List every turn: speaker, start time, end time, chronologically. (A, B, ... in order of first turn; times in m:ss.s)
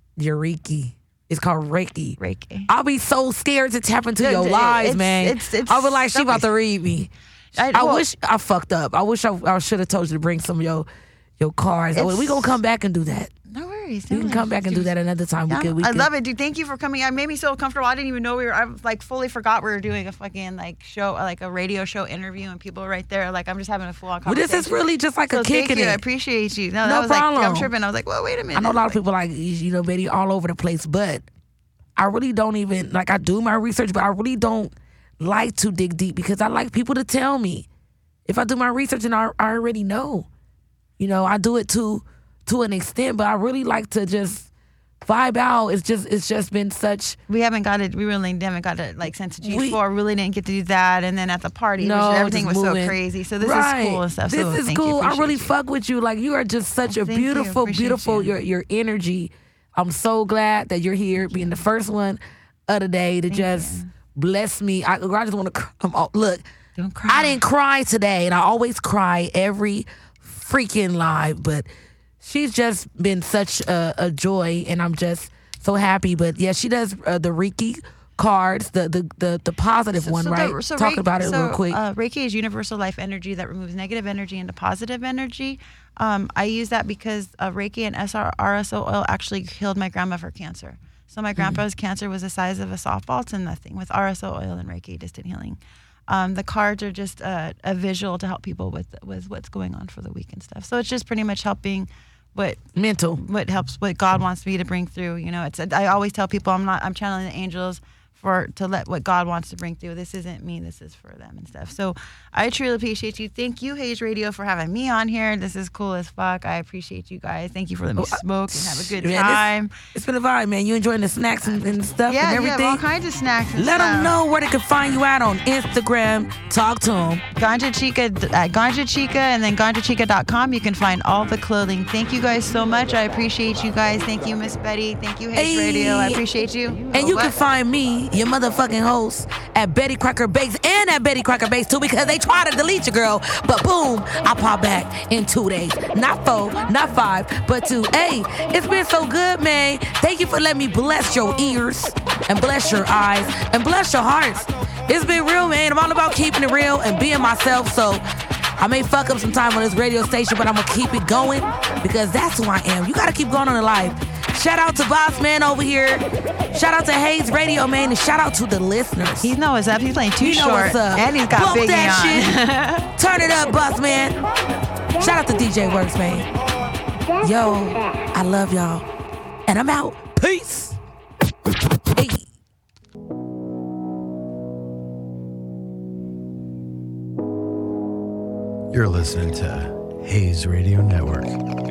0:00.2-0:10.9 A
0:02.2-0:02.7 B
0:04.2-0:06.5 B
0:07.5-0:08.1 B
0:11.4-0:13.3 A
0:11.9-0:12.6 B
0:13.5-0:14.9 B
0:14.1-0:16.1 A
0:15.5-0:29.0 B
0:24.2-0:26.0 A
0:26.8-0:27.7 A
0:28.5-0:31.2 A
0:32.0-0:37.7 A
0:38.3-0:40.3 A
0:41.0-0:44.5 A
0:45.0-0:47.2 A
0:47.3-0:55.6 B
0:49.4-0:49.8 A
0:51.8-1:06.4 A
0:56.9-0:58.3 B
1:01.2-1:01.6 B
1:03.3-1:03.9 B
1:06.8-1:07.4 B
1:07.1-1:11.7 A
1:12.2-1:21.8 A
1:20.0-1:42.6 B
1:42.8-1:43.2 A
1:43.2-1:59.7 B
1:58.0-2:02.8 A
2:02.1-2:04.2 B
2:03.6-2:07.2 A
2:07.4-2:17.4 B
2:15.3-2:16.2 A
2:16.9-2:38.0 A
2:38.6-2:49.3 A
2:49.2-2:52.9 B
2:50.2-2:52.3 A
2:53.0-2:54.2 A
2:55.0-2:56.3 A
2:57.2-2:58.9 A
2:59.5-3:00.8 A
3:01.8-3:02.3 A
3:08.7-3:11.4 C